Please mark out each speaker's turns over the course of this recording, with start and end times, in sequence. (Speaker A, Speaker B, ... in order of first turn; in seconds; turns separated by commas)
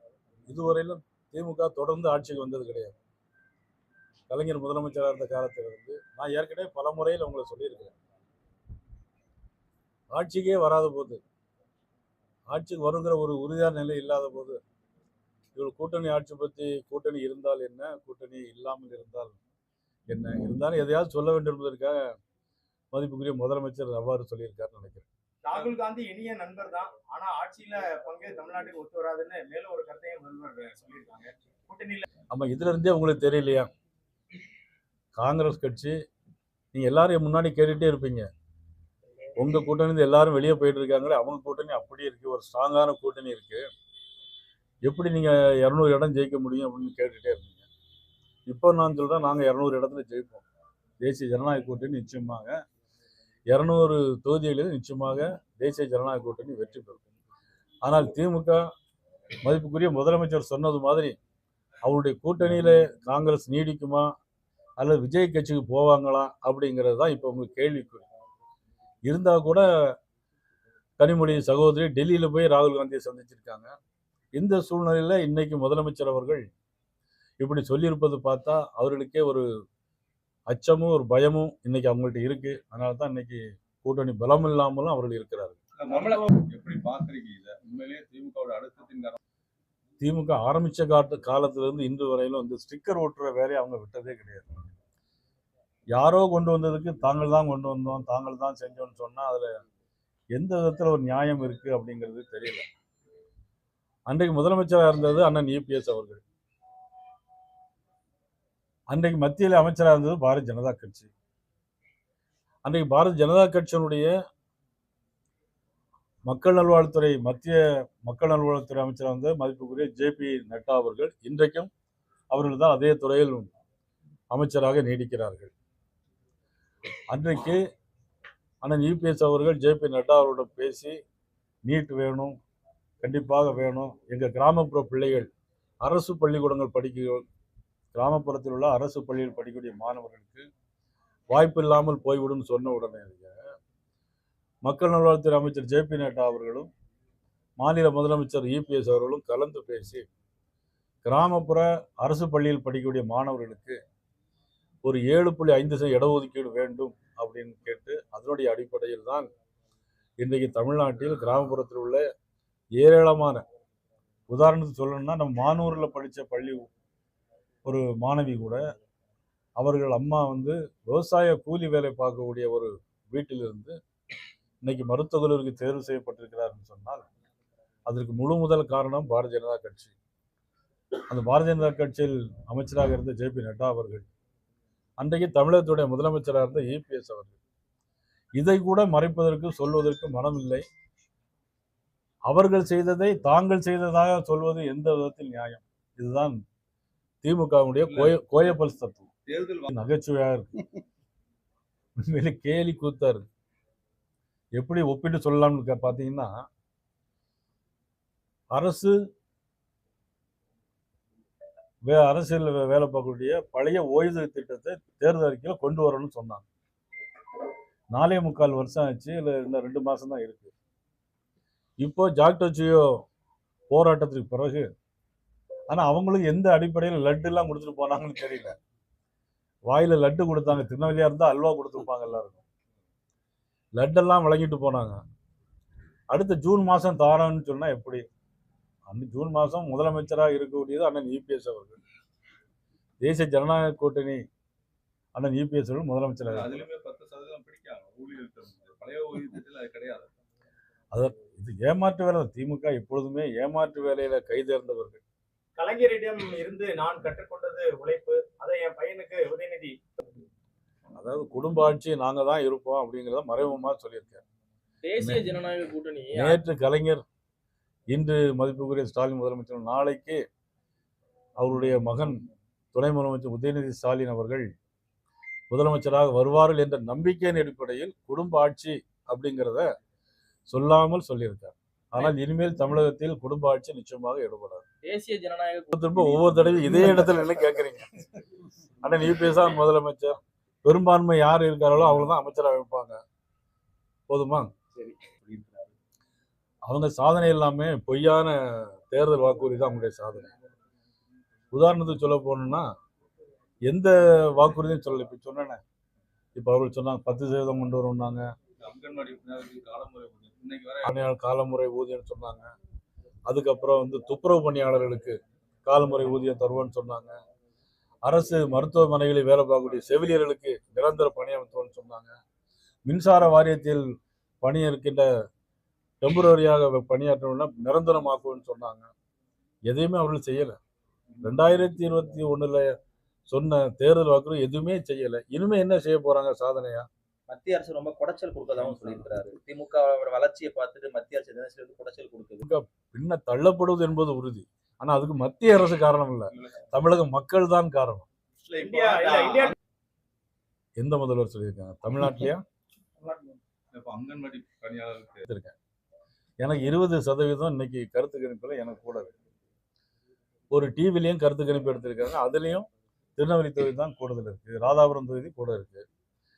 Speaker A: 0.5-2.9, Speaker A: 4.3-7.9, Speaker A: 10.1-11.2, Speaker A: 12.5-14.6, Speaker A: 15.6-19.4, Speaker A: 20.1-22.1, Speaker A: 22.9-25.1, Speaker B: 25.4-32.1, Speaker A: 32.3-33.7, Speaker A: 35.1-35.9, Speaker A: 36.7-38.3, Speaker A: 39.4-43.6, Speaker A: 44.8-47.6, Speaker A: 48.5-50.4, Speaker A: 51.0-52.5, Speaker A: 53.5-57.0, Speaker A: 57.8-58.6, Speaker A: 59.4-61.1, Speaker A: 61.8-64.1, Speaker A: 64.8-68.0, Speaker A: 69.1-69.9, Speaker A: 71.0-73.7, Speaker A: 74.3-76.5, Speaker A: 77.4-79.4, Speaker A: 80.5-85.6, Speaker C: 85.8-89.2, Speaker A: 90.0-94.7, Speaker A: 95.9-99.6, Speaker A: 100.3-102.6, Speaker A: 104.1-106.2, Speaker A: 108.9-111.1, Speaker A: 112.6-114.1, Speaker A: 116.3-121.7, Speaker A: 122.3-123.5, Speaker A: 124.3-125.5, Speaker A: 127.1-127.6, Speaker A: 128.6-130.9, Speaker A: 131.7-132.3, Speaker A: 133.0-135.3, Speaker A: 135.8-137.2, Speaker A: 137.9-140.5, Speaker A: 141.3-143.4, Speaker A: 144.6-146.7, Speaker A: 147.6-150.0, Speaker A: 151.0-153.8, Speaker A: 154.8-159.3, Speaker A: 160.2-162.0, Speaker A: 162.8-163.4, Speaker A: 164.3-166.7, Speaker A: 167.6-168.6, Speaker A: 169.6-173.8, Speaker A: 174.6-177.1, Speaker A: 177.9-179.9, Speaker A: 181.1-184.1, Speaker A: 185.0-187.4, Speaker A: 188.4-190.6, Speaker A: 192.3-196.4, Speaker A: 197.2-199.1, Speaker C: 197.8-198.5, Speaker C: 199.3-199.7, Speaker A: 199.7-200.5, Speaker A: 202.0-203.2, Speaker A: 204.6-206.3, Speaker A: 208.5-208.9, Speaker A: 211.8-216.4, Speaker A: 217.9-220.5, Speaker A: 221.8-223.0, Speaker A: 223.7-224.6, Speaker A: 225.7-228.5, Speaker A: 229.7-232.4, Speaker A: 233.8-235.0, Speaker A: 236.1-238.0, Speaker A: 238.9-241.8, Speaker A: 243.0-244.2, Speaker A: 245.1-246.6, Speaker C: 246.3-250.1, Speaker A: 250.9-255.0, Speaker B: 255.6-259.8, Speaker A: 260.9-264.2, Speaker D: 264.8-266.4, Speaker A: 265.0-265.2, Speaker A: 266.1-267.0, Speaker A: 267.9-270.2, Speaker A: 271.4-272.2, Speaker A: 272.7-274.5, Speaker A: 275.5-279.7, Speaker A: 280.5-284.6, Speaker D: 284.8-285.8, Speaker A: 285.7-287.9, Speaker A: 288.8-293.0, Speaker A: 294.1-294.5, Speaker C: 295.2-295.6, Speaker A: 296.7-300.3, Speaker A: 301.5-302.7, Speaker A: 303.7-305.6, Speaker A: 306.3-308.2, Speaker C: 308.6-310.9, Speaker A: 310.8-312.5, Speaker A: 313.3-317.1, Speaker A: 318.0-322.1, Speaker A: 322.9-323.9, Speaker A: 324.4-325.1, Speaker A: 326.0-328.9, Speaker A: 329.7-330.6, Speaker A: 331.2-332.7, Speaker A: 333.3-336.9, Speaker E: 337.3-342.4, Speaker C: 338.6-339.1, Speaker A: 342.4-348.1, Speaker C: 348.4-349.5, Speaker B: 348.6-349.5, Speaker E: 349.1-349.4, Speaker A: 350.8-352.4, Speaker B: 353.0-353.4, Speaker C: 353.7-355.2, Speaker A: 355.2-355.5, Speaker A: 356.4-359.1, Speaker A: 360.5-365.8